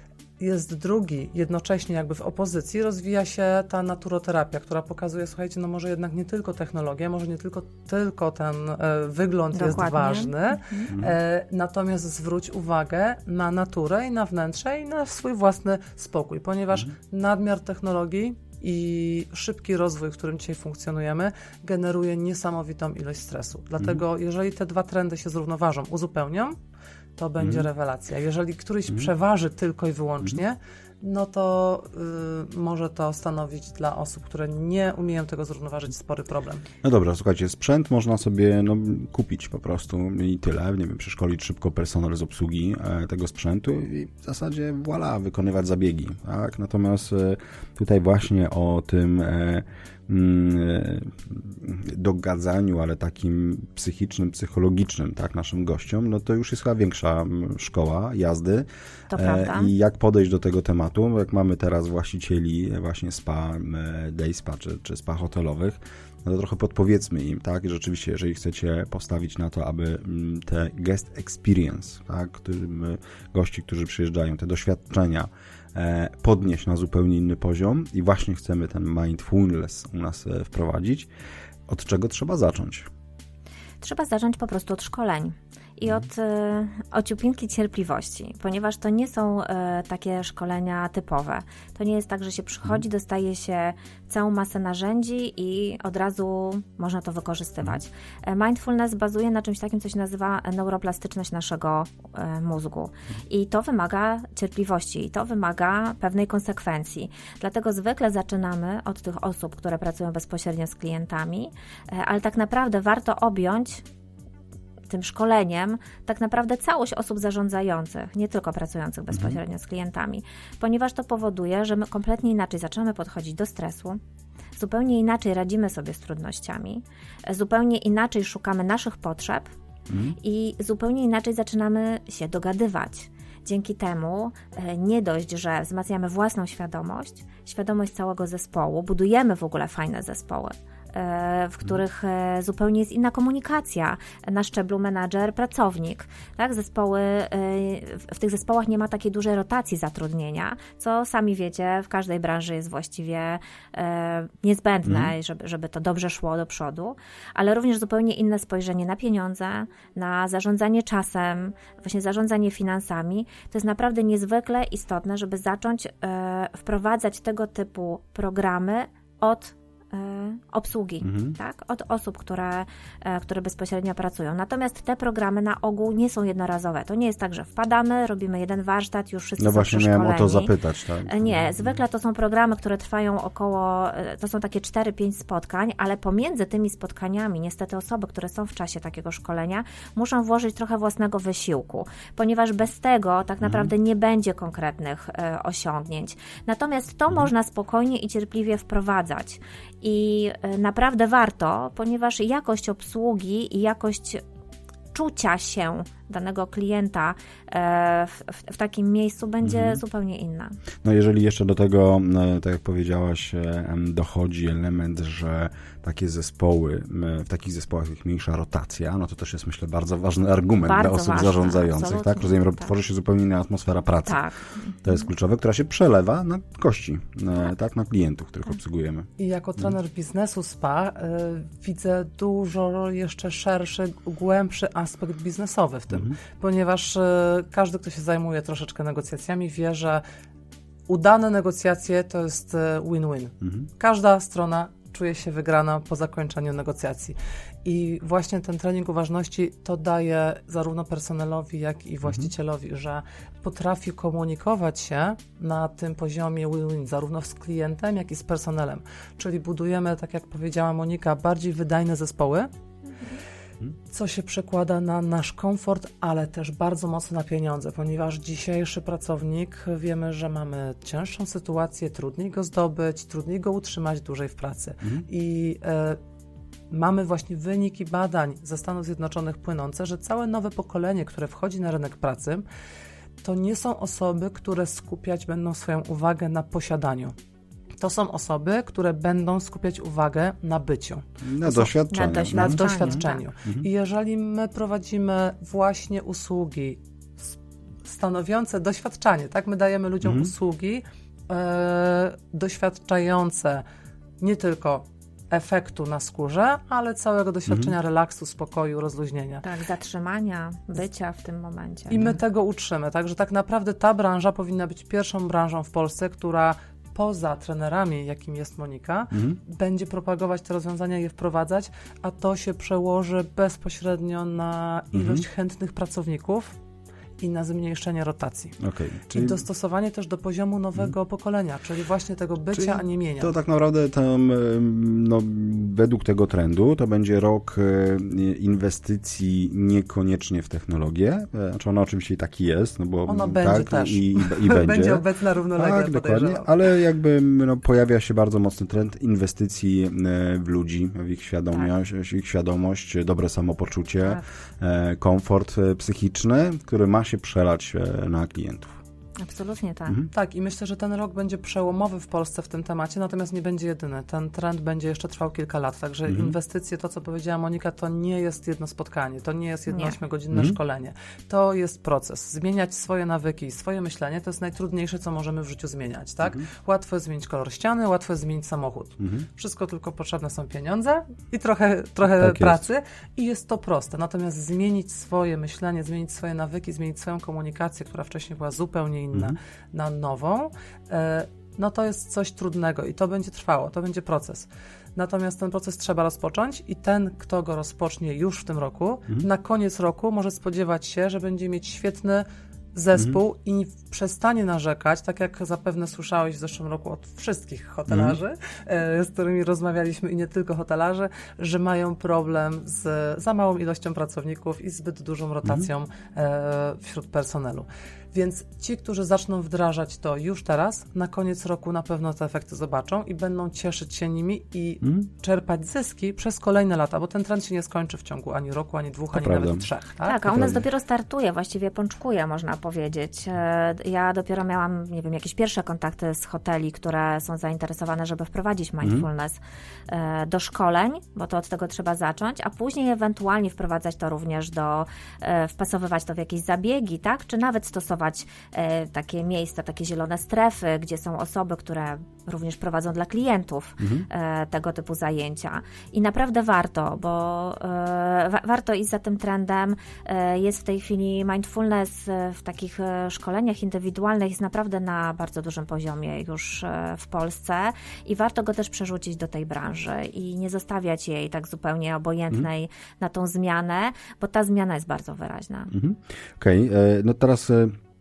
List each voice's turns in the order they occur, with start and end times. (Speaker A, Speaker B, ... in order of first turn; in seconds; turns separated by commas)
Speaker A: 0.4-26.6, Speaker B: 9.5-10.9, Speaker C: 10.9-11.2, Speaker A: 27.2-36.7, Speaker C: 27.4-27.7, Speaker C: 36.8-81.1, Speaker B: 59.1-59.7, Speaker C: 81.7-82.9, Speaker B: 83.8-113.8, Speaker B: 114.9-124.0, Speaker C: 119.1-119.4, Speaker B: 124.6-129.5, Speaker C: 129.9-130.2, Speaker B: 130.2-180.5, Speaker C: 154.8-155.1, Speaker C: 171.0-171.4, Speaker C: 179.4-181.8, Speaker B: 181.1-204.2, Speaker C: 193.4-193.7, Speaker B: 204.9-210.6, Speaker C: 209.4-209.8, Speaker C: 210.8-224.2, Speaker B: 220.7-222.7, Speaker B: 224.1-224.8, Speaker C: 224.8-229.1, Speaker A: 229.2-240.0, Speaker C: 235.9-236.2, Speaker A: 240.9-262.5, Speaker C: 243.4-243.7, Speaker A: 263.9-276.0, Speaker A: 276.7-282.4, Speaker A: 283.2-287.1, Speaker A: 287.8-291.1, Speaker C: 291.2-293.7, Speaker B: 291.5-293.2, Speaker A: 292.3-303.6, Speaker C: 300.0-300.3, Speaker A: 304.2-309.4, Speaker B: 309.4-312.2, Speaker A: 311.9-326.6, Speaker C: 319.1-319.4, Speaker C: 324.9-325.2, Speaker A: 327.2-328.6, Speaker C: 328.6-329.4, Speaker A: 329.1-333.3, Speaker C: 332.5-345.0, Speaker A: 343.1-346.5, Speaker C: 345.6-358.8, Speaker B: 359.2-360.0, Speaker A: 360.1-430.6, Speaker C: 366.1-366.4, Speaker B: 369.7-370.0, Speaker C: 379.0-379.2, Speaker C: 382.1-382.6, Speaker C: 407.9-408.2, Speaker C: 424.8-425.1, Speaker C: 429.1-429.7, Speaker B: 430.0-475.7, Speaker C: 430.3-430.6, Speaker C: 453.8-454.1, Speaker C: 475.7-477.7